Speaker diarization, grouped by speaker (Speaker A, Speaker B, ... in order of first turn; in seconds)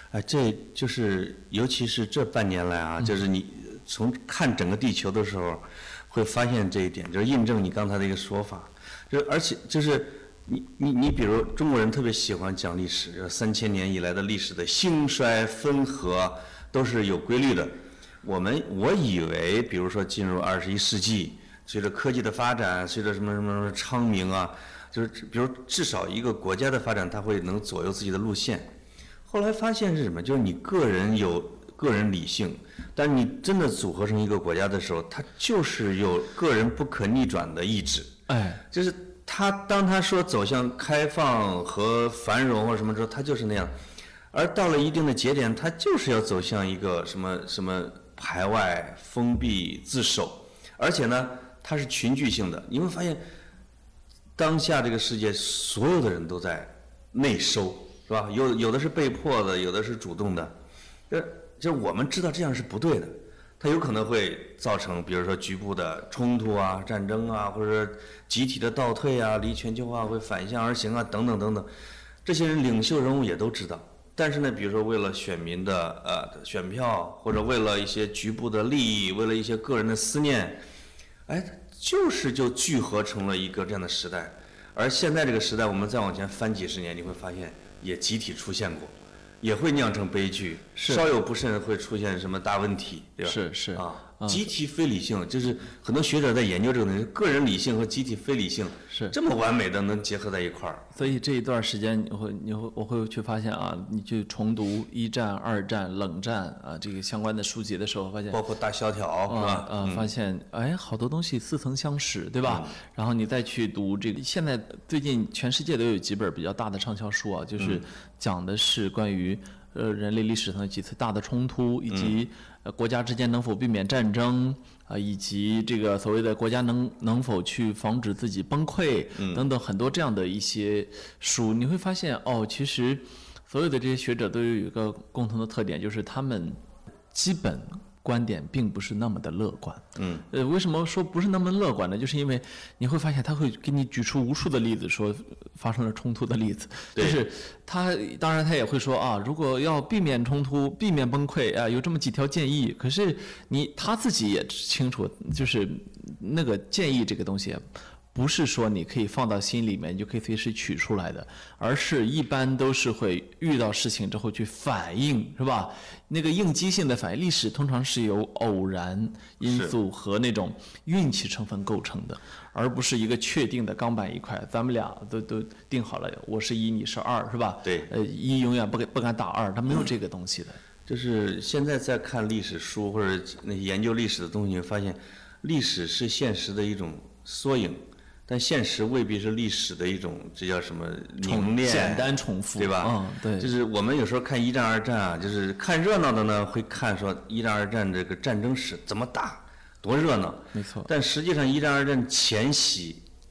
Speaker A: 0.1-28.7, 29.3-38.2, 38.7-43.8, 44.3-53.2, 54.4-60.5, 61.1-71.7, 72.2-80.6, 81.3-101.0, 108.3-110.1, 112.4-112.8, 117.6-117.9, 121.9-122.2, 129.2-129.5, 140.0-140.3, 146.9-147.2, 169.4-169.8, 177.6-177.9, 180.9-203.0
Speaker B: 38.3-38.6, 90.8-91.1, 93.2-94.5, 101.0-108.4, 109.3-136.6, 137.1-157.6, 158.1-180.6, 191.2-193.5, 200.5-200.9